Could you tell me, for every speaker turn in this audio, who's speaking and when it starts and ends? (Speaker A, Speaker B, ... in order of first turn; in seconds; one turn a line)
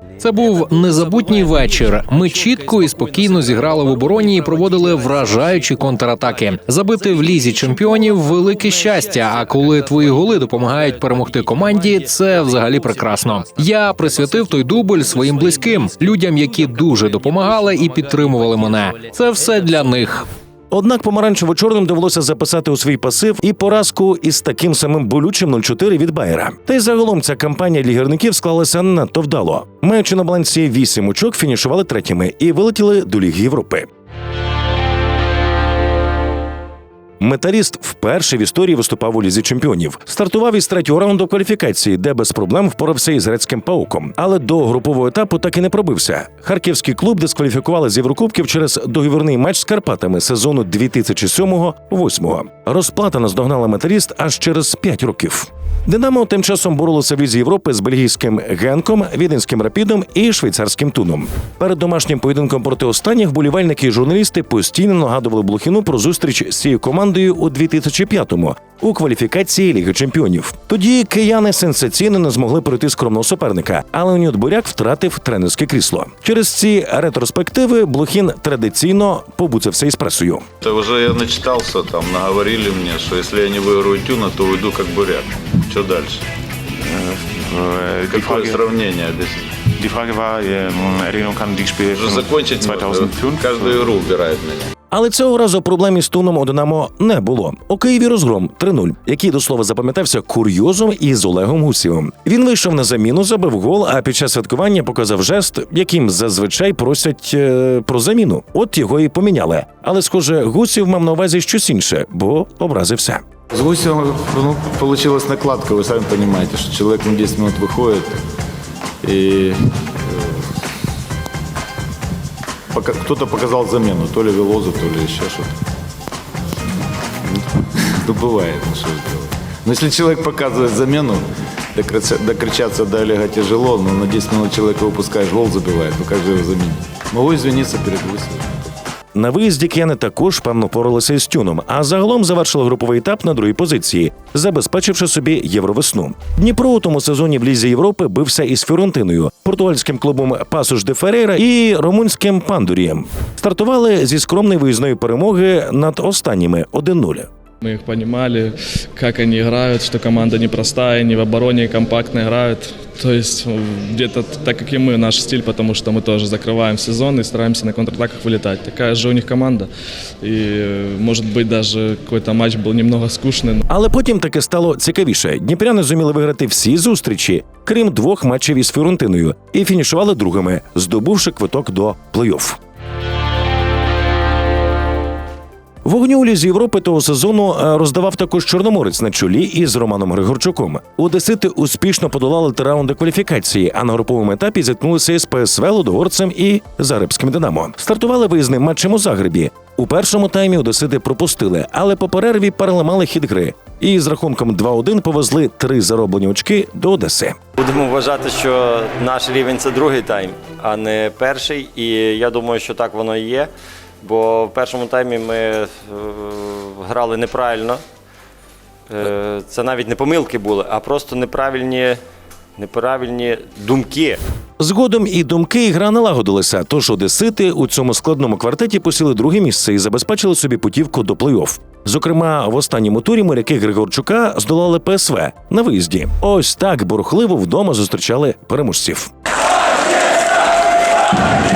Speaker A: 0.2-20.2
Speaker B: 20.7-33.9
Speaker B: 37.2-80.4
Speaker C: 80.6-86.2
Speaker D: 87.5-88.5
Speaker C: 88.0-89.5
Speaker D: 89.8-92.0
Speaker C: 91.9-94.7
Speaker D: 92.7-93.4
Speaker B: 94.9-113.2
Speaker C: 113.5-118.2
Speaker C: 119.0-120.5
Speaker C: 122.7-125.6
Speaker C: 127.3-138.6
Speaker B: 139.1-157.3
Speaker E: 157.6-169.7
Speaker E: 170.2-173.6
Speaker B: 173.7-182.6
Speaker B: 185.8-207.4
Speaker F: 207.6-213.5
Speaker F: 214.0-217.8
Speaker F: 218.9-222.0
Speaker F: 222.6-224.2
Speaker B: 224.6-239.1